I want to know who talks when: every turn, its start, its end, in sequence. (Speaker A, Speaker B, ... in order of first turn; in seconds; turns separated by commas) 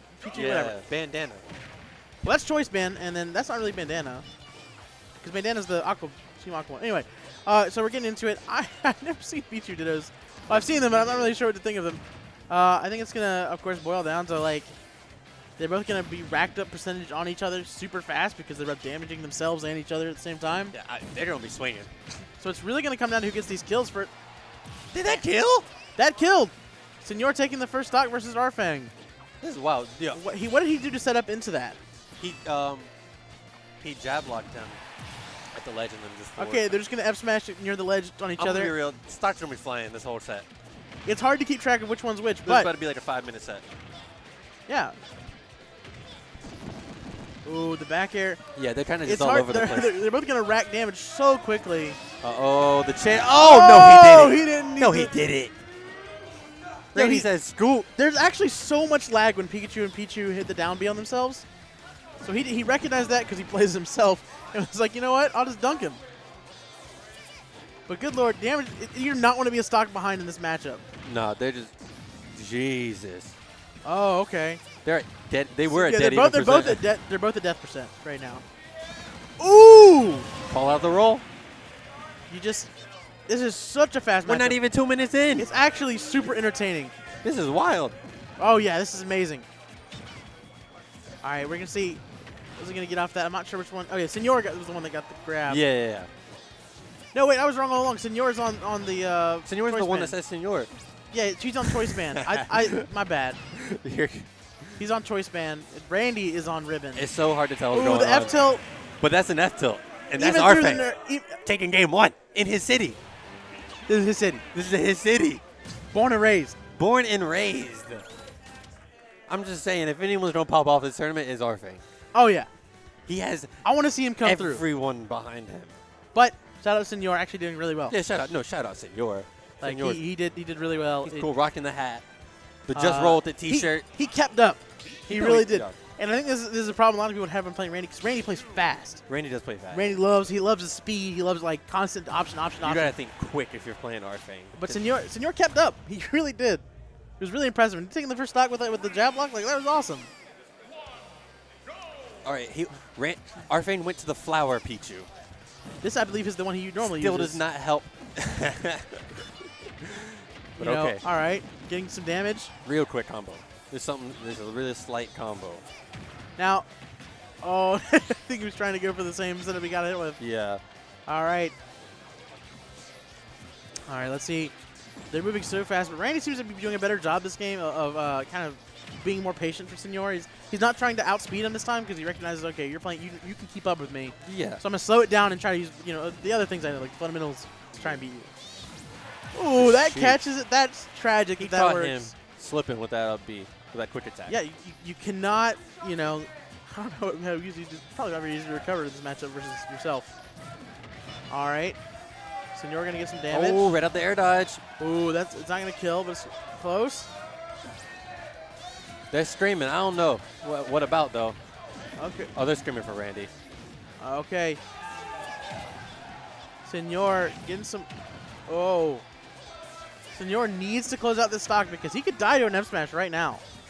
Speaker A: 0.2-0.8, Speaker B: 0.3-1.5, Speaker A: 2.2-4.2, Speaker A: 5.2-14.7, Speaker B: 10.5-11.3, Speaker A: 15.6-20.7, Speaker B: 20.7-21.9, Speaker A: 22.4-24.1, Speaker B: 24.9-25.7, Speaker A: 26.0-28.9, Speaker B: 29.4-30.2, Speaker A: 30.1-31.8, Speaker B: 32.2-32.9, Speaker B: 33.8-34.8, Speaker B: 35.5-36.8, Speaker A: 36.4-38.7, Speaker B: 38.4-40.5, Speaker A: 41.0-42.7, Speaker B: 42.5-43.6, Speaker A: 44.7-45.0, Speaker A: 47.5-48.4, Speaker B: 48.5-50.0, Speaker A: 49.0-52.0, Speaker B: 52.2-55.5, Speaker A: 53.3-55.1, Speaker B: 56.9-57.9, Speaker A: 57.0-57.3, Speaker A: 58.0-61.5, Speaker A: 62.2-66.0, Speaker A: 67.9-70.8, Speaker B: 71.0-71.7, Speaker B: 72.3-73.3, Speaker A: 73.8-74.6, Speaker B: 74.8-76.8, Speaker A: 75.7-78.4, Speaker A: 79.4-80.3, Speaker B: 80.5-81.2, Speaker A: 82.3-82.7, Speaker A: 83.3-84.6, Speaker B: 84.2-85.5, Speaker A: 85.4-86.9, Speaker B: 87.2-88.0, Speaker A: 88.4-89.5, Speaker A: 91.2-92.0, Speaker A: 92.6-95.6, Speaker B: 95.5-96.1, Speaker A: 97.1-100.2, Speaker B: 99.5-100.7, Speaker A: 101.1-103.4, Speaker B: 101.6-102.9, Speaker B: 103.5-104.8, Speaker A: 104.8-107.1, Speaker B: 106.9-108.3, Speaker A: 107.7-108.6, Speaker B: 109.0-110.9, Speaker A: 110.2-111.4, Speaker B: 111.4-113.0, Speaker A: 113.9-114.4, Speaker B: 114.5-115.4, Speaker A: 115.9-116.5, Speaker B: 116.8-118.0, Speaker B: 119.3-121.8, Speaker A: 122.1-122.5, Speaker B: 123.1-123.7, Speaker A: 123.6-124.6, Speaker B: 124.2-125.8, Speaker A: 126.1-128.0, Speaker B: 127.9-130.0, Speaker A: 129.6-131.3, Speaker B: 131.0-132.1, Speaker B: 132.7-133.9, Speaker A: 132.7-139.0, Speaker B: 135.1-135.7, Speaker B: 139.1-139.9, Speaker A: 139.7-143.0, Speaker B: 142.6-144.8, Speaker A: 144.6-146.6, Speaker A: 147.2-150.1, Speaker B: 152.2-155.1, Speaker A: 155.8-157.4, Speaker B: 156.8-159.3, Speaker B: 159.8-161.0, Speaker A: 160.6-162.5, Speaker B: 162.7-165.7, Speaker A: 166.4-166.7, Speaker A: 167.4-170.2, Speaker B: 170.2-170.6, Speaker A: 171.1-171.6, Speaker A: 173.9-174.5, Speaker A: 175.1-188.3, Speaker B: 184.2-184.6, Speaker B: 187.8-188.0, Speaker A: 189.3-192.1, Speaker B: 189.5-190.2, Speaker B: 191.4-194.4, Speaker A: 194.3-200.1, Speaker A: 201.3-201.8, Speaker A: 202.5-203.7, Speaker B: 203.3-204.6, Speaker A: 204.8-207.1, Speaker B: 209.1-211.4, Speaker A: 212.0-212.3, Speaker B: 212.3-213.3, Speaker A: 214.0-214.6, Speaker A: 216.6-217.9, Speaker A: 218.5-219.0, Speaker A: 220.1-223.4